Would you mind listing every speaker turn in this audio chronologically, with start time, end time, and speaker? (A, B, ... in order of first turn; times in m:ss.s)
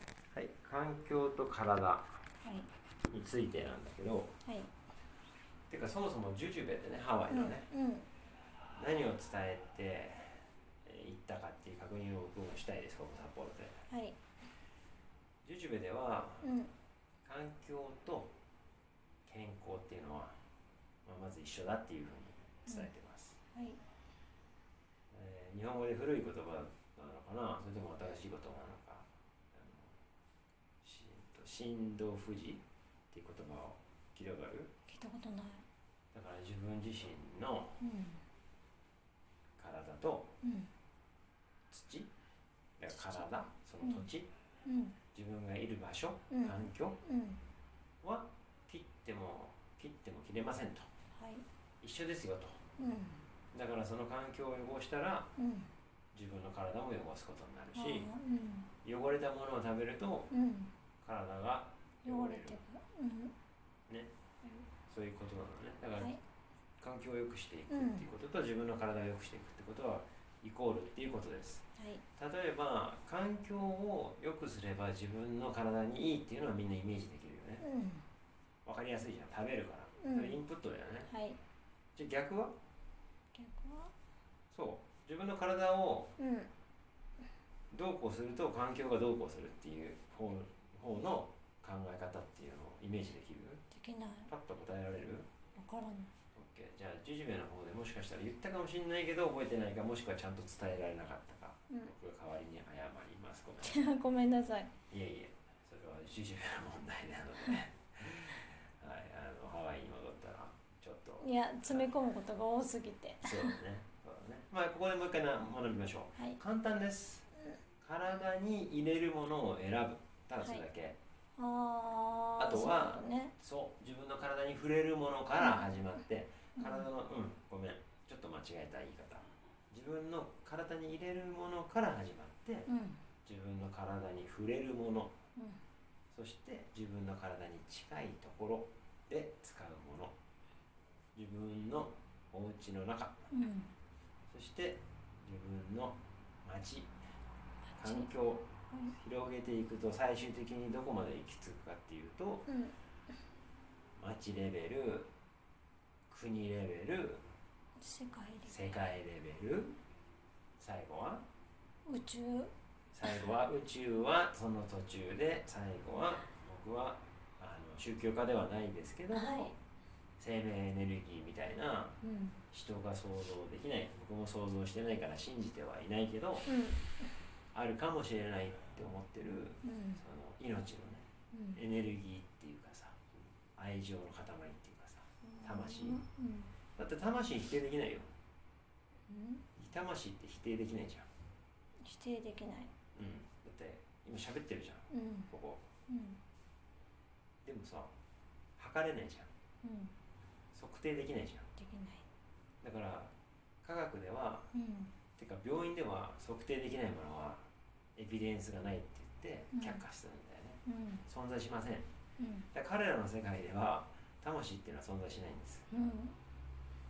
0:00.3-0:02.2 A
0:02.4-0:02.7 B
0:03.0-0:04.4 A
0:05.7-0:07.7 A
0:07.3-0:08.1 B
0:08.8-0:13.8 A
0:13.9-0:14.2 B
0:15.4-0:16.5 A
0:16.4-0:16.7 B
0:17.2-0:18.3 A
0:19.3-0:20.3 A
0:21.0-0:23.4 A
0:23.5-0:23.8 B
0:25.1-0:30.0 A
0:30.8-0:34.7 A
0:34.9-0:35.6 B
0:36.1-0:37.8 A
0:37.8-0:38.2 B
0:39.6-0:40.4 A
0:40.4-0:40.7 B
0:41.7-0:42.1 A
0:42.8-0:44.3 A
0:43.0-0:43.3 B
0:43.8-0:44.1 B
0:44.6-0:45.0 B
0:45.1-0:47.0 A
0:46.3-0:47.4 B
0:48.0-0:50.9 A
0:51.2-0:51.4 B
0:51.8-0:52.6 A
0:52.8-0:53.2 B
0:53.5-0:55.3 A
0:55.4-0:55.7 B
0:56.1-0:58.1 A
0:57.8-0:58.7 B
0:58.8-1:00.3 A
1:00.3-1:00.7 B
1:01.0-1:02.6 A
1:02.0-1:03.4 B
1:04.9-1:06.2 A
1:06.0-1:06.2 B
1:06.8-1:17.7 A
1:07.7-1:08.1 B
1:11.8-1:12.0 B
1:17.6-1:18.0 B
1:18.6-1:21.1 A
1:20.0-1:20.4 B
1:21.1-1:21.4 B
1:22.0-1:22.6 A
1:23.3-1:23.9 B
1:24.5-1:26.2 A
1:26.2-1:26.5 B
1:27.7-1:33.6 A
1:33.7-1:34.3 B
1:34.3-1:35.3 A
1:35.6-1:36.1 B
1:36.3-1:44.0 A
1:43.6-1:44.7 B
1:44.9-1:51.9 A
1:51.2-1:53.6 B
1:53.2-2:01.0 A
2:00.4-2:00.6 B
2:01.4-2:03.3 B
2:02.4-2:12.7 A
2:06.6-2:06.9 B
2:12.7-2:13.0 B
2:13.2-2:15.1 A
2:15.4-2:15.6 B
2:16.1-2:20.1 A
2:21.2-2:23.2 A
2:23.3-2:23.7 B
2:24.3-2:26.9 A
2:27.8-2:28.1 B
2:27.8-2:32.5 A
2:32.5-2:32.8 B
2:34.0-2:35.1 A
2:36.1-2:37.2 A
2:37.8-2:38.8 B
2:38.5-2:39.8 A
2:40.6-2:41.2 A
2:41.9-2:42.5 B
2:42.9-2:49.5 A
2:49.1-2:49.6 B
2:50.2-2:52.0 A
2:52.0-2:52.4 B
2:52.5-2:56.5 A
2:56.5-2:56.9 B
2:57.5-3:03.0 A
2:59.6-3:00.0 B
3:01.3-3:01.6 B
3:03.6-3:06.0 A
3:05.3-3:06.5 B
3:06.8-3:08.1 A
3:09.1-3:09.5 B
3:09.6-3:11.1 A
3:11.8-3:12.7 B
3:13.0-3:15.6 A
3:14.9-3:15.3 B
3:15.9-3:16.2 B
3:17.4-3:17.9 A
3:18.6-3:19.3 A
3:19.6-3:20.0 B
3:20.5-3:21.5 A
3:21.6-3:22.0 B
3:22.6-3:23.1 A
3:23.6-3:24.5 A
3:24.5-3:24.9 B
3:25.2-3:31.9 A
3:29.5-3:29.8 B
3:30.7-3:31.0 B
3:32.2-3:32.5 B
3:32.5-3:35.7 A
3:35.7-3:36.2 B